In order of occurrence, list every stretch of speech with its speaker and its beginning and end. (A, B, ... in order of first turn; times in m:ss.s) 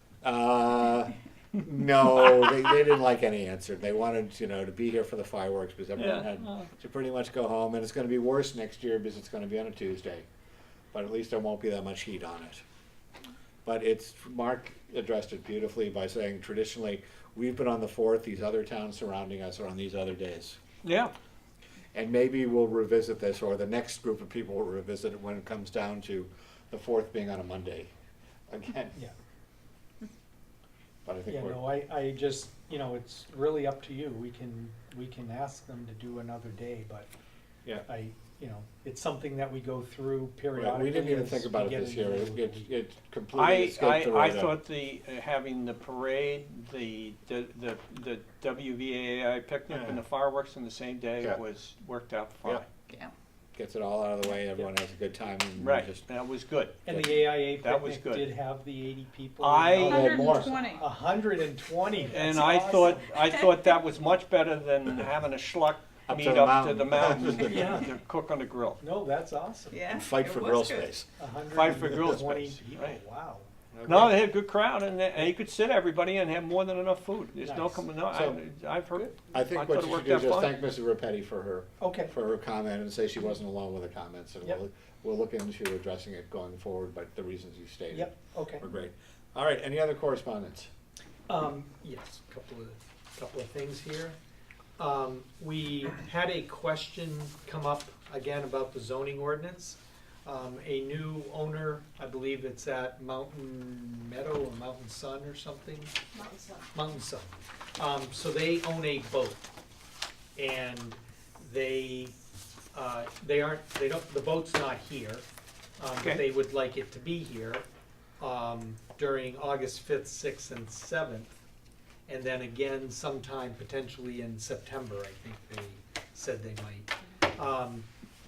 0:00.2-0:10.2 A
0:06.0-0:06.7 B
0:10.9-0:12.6 A
0:13.6-0:20.6 A
0:20.8-0:21.1 B
0:21.9-0:27.9 A
0:28.5-0:29.0 A
0:31.0-0:31.6 A
0:31.3-0:37.1 C
0:37.8-0:42.7 C
0:40.5-0:44.6 A
0:43.3-0:52.7 B
0:49.7-0:50.0 A
0:52.9-0:53.1 D
0:53.5-0:56.0 A
0:55.6-0:58.3 B
0:56.8-1:03.2 C
0:59.4-1:00.0 B
0:59.8-1:00.6 A
0:59.8-1:00.8 D
1:02.1-1:08.8 B
1:06.1-1:07.8 A
1:08.8-1:09.8 C
1:09.7-1:11.0 D
1:09.9-1:11.1 A
1:11.2-1:13.5 C
1:11.5-1:13.0 B
1:11.7-1:12.2 A
1:13.7-1:14.2 A
1:13.8-1:20.5 B
1:17.4-1:17.8 C
1:18.1-1:18.4 A
1:19.3-1:30.7 A
1:21.8-1:22.1 C
1:27.9-1:28.6 C
1:31.3-1:34.2 C
1:34.8-1:45.9 C
1:46.1-1:46.7 D
1:46.7-1:49.5 C
1:50.4-1:52.1 C
1:52.7-1:55.2 C
1:55.8-1:57.6 C
1:58.2-2:01.3 C
2:02.1-2:07.9 C